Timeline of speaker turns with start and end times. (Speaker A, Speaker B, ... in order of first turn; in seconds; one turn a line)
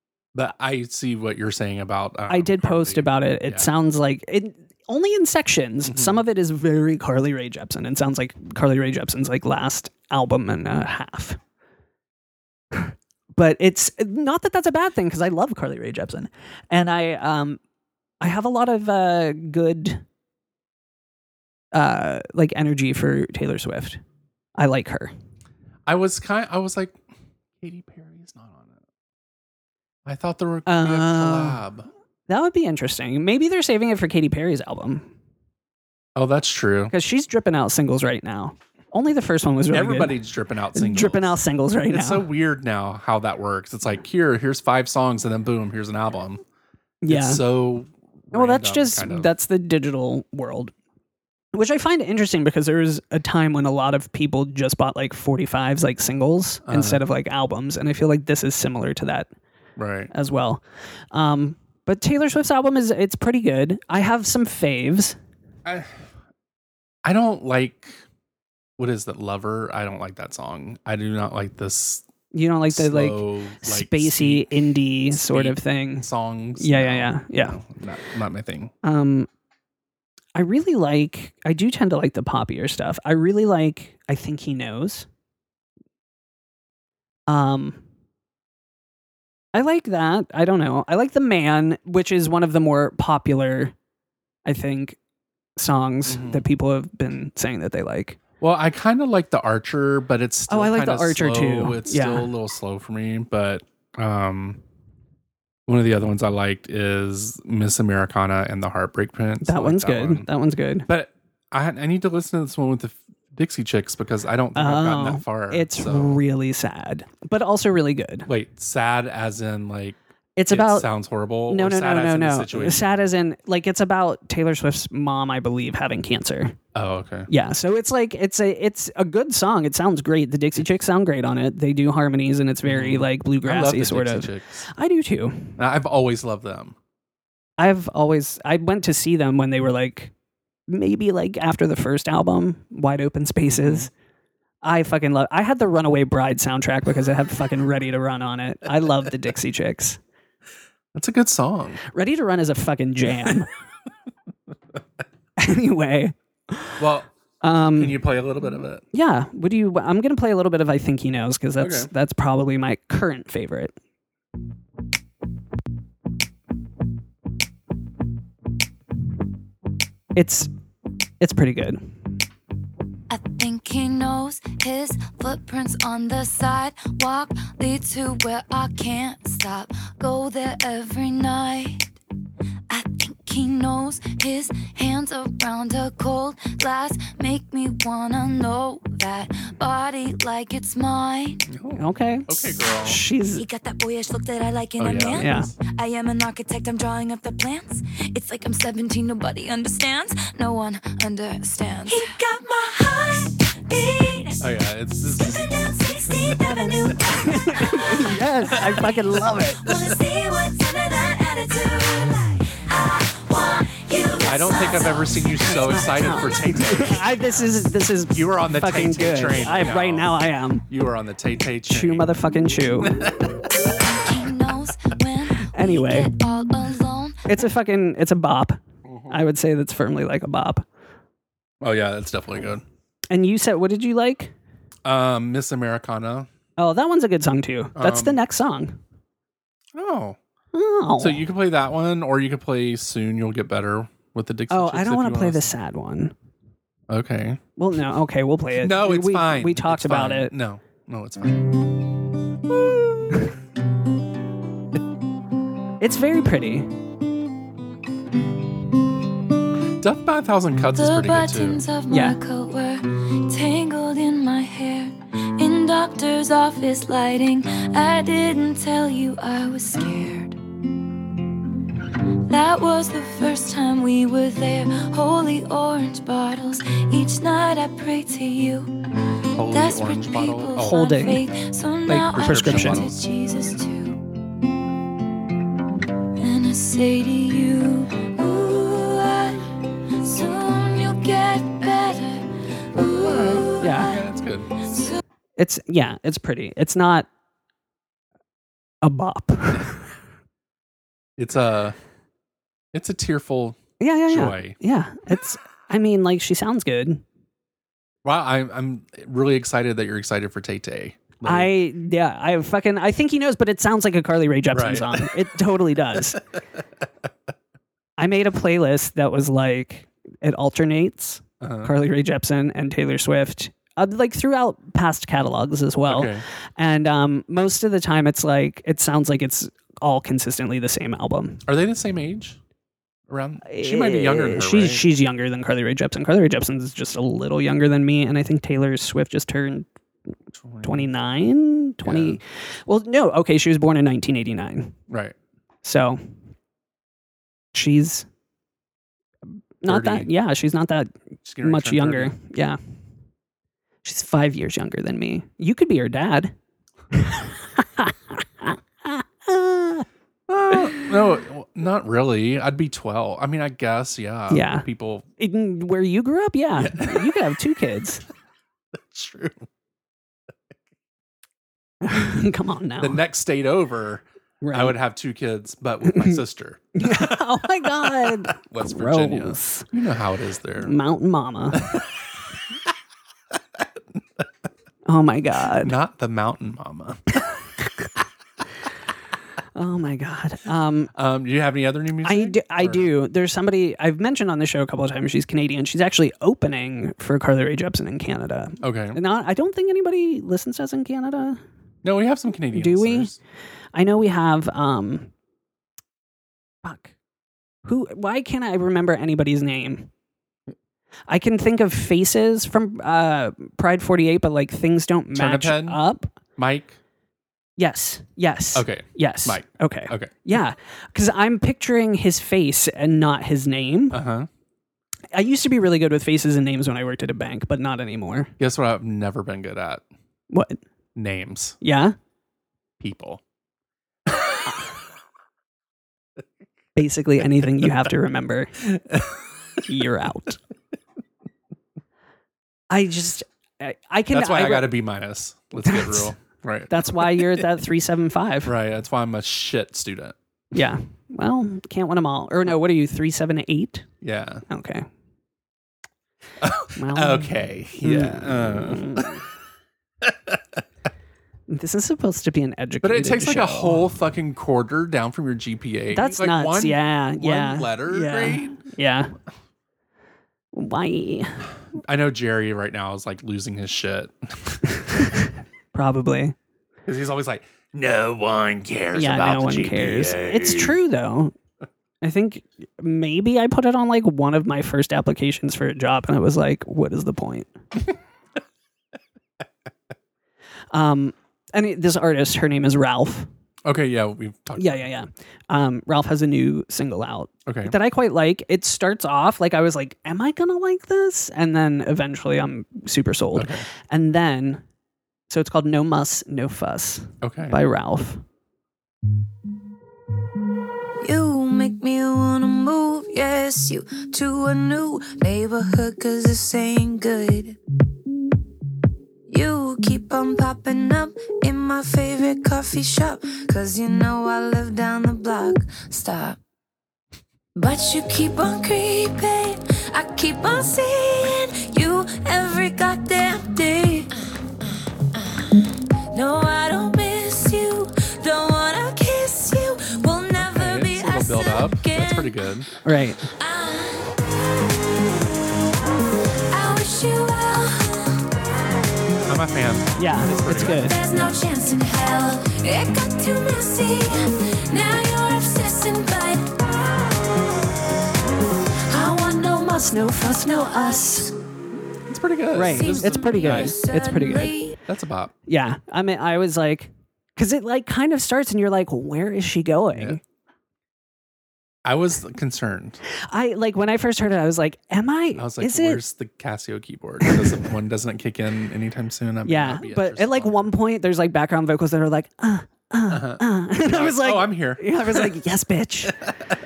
Speaker A: 0.3-3.7
Speaker B: 2.3-11.4
Speaker A: 5.8-6.2
Speaker B: 12.8-17.6
Speaker B: 18.2-20.0
Speaker B: 21.7-24.0
Speaker B: 24.6-25.1
Speaker A: 25.9-27.0
Speaker A: 27.6-28.8
Speaker A: 30.1-31.9
Speaker B: 30.7-31.6
Speaker B: 32.3-35.1
Speaker A: 36.2-36.9
Speaker B: 36.9-40.1
Speaker A: 39.7-41.4
Speaker B: 40.7-42.3
Speaker A: 41.9-46.4
Speaker B: 47.0-47.4
Speaker A: 47.1-49.3
Speaker B: 48.3-50.7
Speaker B: 51.5-59.3
Speaker A: 56.6-57.0
Speaker A: 59.8-60.1
Speaker B: 60.1-65.2
Speaker A: 65.7-66.0
Speaker A: 67.0-68.0
Speaker A: 68.8-72.0
Speaker B: 72.3-76.1
Speaker A: 72.7-78.7
Speaker B: 76.6-77.6
Speaker B: 78.8-79.3
Speaker B: 80.3-85.1
Speaker B: 87.3-87.8
Speaker B: 89.5-93.7
Speaker B: 94.5-95.0
Speaker B: 95.6-98.2
Speaker A: 96.1-96.5
Speaker A: 98.4-104.6
Speaker B: 100.5-102.3
Speaker A: 105.7-110.3
Speaker B: 109.4-110.9
Speaker A: 110.9-116.2
Speaker B: 114.5-118.3
Speaker A: 118.3-120.0
Speaker B: 120.4-120.9
Speaker A: 120.5-123.0
Speaker B: 121.5-126.6
Speaker A: 126.7-127.3
Speaker B: 127.3-135.6
Speaker A: 132.7-134.7
Speaker A: 135.6-136.8
Speaker B: 137.6-140.1
Speaker B: 140.7-143.9
Speaker A: 143.5-143.9
Speaker B: 144.6-150.0
Speaker A: 150.9-151.8
Speaker B: 151.9-153.5
Speaker B: 155.4-156.8
Speaker A: 156.8-157.1
Speaker B: 157.4-158.0
Speaker A: 157.7-158.8
Speaker B: 158.9-163.7
Speaker A: 161.6-161.9
Speaker B: 170.2-170.5
Speaker B: 171.2-171.9
Speaker C: 173.1-181.9
Speaker C: 182.7-191.5
Speaker A: 191.5-193.0
Speaker B: 191.8-193.4
Speaker C: 193.3-204.4
Speaker A: 194.8-195.3
Speaker B: 195.2-195.5
Speaker A: 204.4-207.1
Speaker C: 205.0-208.1
Speaker B: 207.0-209.6
Speaker C: 209.6-215.3
Speaker A: 209.7-209.9
Speaker A: 214.2-217.1
Speaker B: 215.4-220.6
Speaker A: 218.1-222.1
Speaker B: 221.7-223.0
Speaker A: 222.8-223.2
Speaker C: 223.9-227.4
Speaker B: 225.5-226.1
Speaker B: 227.3-228.6
Speaker A: 228.8-229.2
Speaker B: 229.1-230.7
Speaker A: 231.6-232.6
Speaker B: 233.1-234.3
Speaker A: 234.8-236.3
Speaker B: 236.6-238.8
Speaker A: 237.8-238.2
Speaker A: 239.8-240.2
Speaker B: 240.5-241.3
Speaker A: 241.0-245.5
Speaker B: 244.5-246.1
Speaker A: 246.9-247.4
Speaker B: 247.6-250.3
Speaker A: 248.6-251.6
Speaker B: 255.8-256.7
Speaker A: 259.8-261.6
Speaker C: 260.8-270.4
Speaker B: 261.9-262.2
Speaker C: 272.3-278.7
Speaker A: 279.4-280.8
Speaker C: 279.5-284.0
Speaker B: 280.6-281.2
Speaker B: 281.9-282.9
Speaker A: 281.9-283.0
Speaker C: 286.2-289.4
Speaker C: 290.0-294.0
Speaker A: 293.0-294.5
Speaker B: 293.6-293.9
Speaker C: 294.7-295.0
Speaker B: 295.4-297.1
Speaker B: 298.8-299.8
Speaker A: 301.2-301.8
Speaker A: 302.7-304.6
Speaker B: 303.8-307.0
Speaker A: 308.0-311.5
Speaker B: 311.2-316.2
Speaker A: 314.5-315.1
Speaker B: 318.0-331.4
Speaker A: 321.4-321.7
Speaker A: 325.9-326.2
Speaker A: 331.5-332.4
Speaker A: 333.1-334.9
Speaker B: 333.4-339.7
Speaker A: 340.4-340.9
Speaker B: 340.6-344.8
Speaker A: 341.8-342.2
Speaker A: 344.9-345.2
Speaker B: 345.6-346.0
Speaker B: 347.5-348.1
Speaker B: 349.6-352.6
Speaker A: 349.7-350.1
Speaker A: 351.2-352.1
Speaker B: 353.8-356.3
Speaker B: 356.9-359.9
Speaker A: 360.3-365.1
Speaker B: 360.5-360.8
Speaker B: 364.3-364.7
Speaker B: 365.2-368.0
Speaker A: 366.6-367.2
Speaker A: 368.7-369.5
Speaker B: 371.8-373.0
Speaker A: 372.8-380.8
Speaker B: 374.4-374.8
Speaker B: 375.8-376.2
Speaker B: 376.8-379.7
Speaker B: 380.6-381.7
Speaker A: 381.6-381.8
Speaker A: 384.0-384.2
Speaker B: 384.9-385.8
Speaker A: 385.6-387.0
Speaker B: 389.6-390.9
Speaker A: 390.9-392.9
Speaker B: 392.0-401.4
Speaker A: 398.6-399.0
Speaker A: 401.8-403.2
Speaker B: 402.5-403.1
Speaker B: 403.8-405.1
Speaker B: 406.6-406.9
Speaker B: 407.6-409.9
Speaker B: 411.1-416.1
Speaker A: 415.1-415.8
Speaker A: 416.4-416.8
Speaker B: 417.6-424.0
Speaker A: 418.5-420.1
Speaker A: 423.9-424.3
Speaker B: 425.1-428.3
Speaker A: 428.4-429.8
Speaker B: 430.3-430.6
Speaker A: 431.0-431.6
Speaker B: 431.6-431.9
Speaker A: 432.8-433.2
Speaker B: 436.8-438.6
Speaker A: 438.7-439.2
Speaker B: 439.7-440.4
Speaker B: 442.7-444.8
Speaker A: 444.1-447.5
Speaker B: 445.6-446.1
Speaker B: 446.7-448.5
Speaker A: 448.4-450.2
Speaker B: 450.5-453.9
Speaker A: 454.0-454.4
Speaker B: 454.5-454.9
Speaker A: 456.4-459.2
Speaker B: 456.8-459.2
Speaker A: 460.0-460.6
Speaker B: 461.5-463.9
Speaker A: 462.8-468.6
Speaker B: 465.9-469.1
Speaker B: 470.5-471.4
Speaker A: 471.8-475.0
Speaker B: 474.9-476.4
Speaker A: 476.9-480.8
Speaker B: 478.9-481.4
Speaker B: 482.0-487.5
Speaker B: 490.7-493.3
Speaker A: 493.6-494.9
Speaker B: 494.6-504.6
Speaker A: 497.5-497.8
Speaker A: 503.3-503.7
Speaker B: 505.3-508.2
Speaker A: 507.2-507.6
Speaker C: 511.0-517.6
Speaker C: 519.3-526.4
Speaker C: 527.5-534.1
Speaker C: 535.1-542.7
Speaker A: 540.3-542.7
Speaker B: 542.8-543.2
Speaker C: 543.2-545.1
Speaker C: 546.5-548.2
Speaker A: 549.3-551.0
Speaker B: 550.0-551.0
Speaker C: 550.5-557.6
Speaker C: 558.9-561.3
Speaker B: 559.3-561.3
Speaker A: 562.1-563.8
Speaker B: 562.5-564.5
Speaker C: 562.7-564.8
Speaker A: 564.9-565.3
Speaker B: 565.5-570.2
Speaker A: 569.9-570.2
Speaker A: 571.9-573.0
Speaker B: 573.3-576.0
Speaker A: 575.4-580.7
Speaker B: 579.5-586.1
Speaker A: 583.1-585.3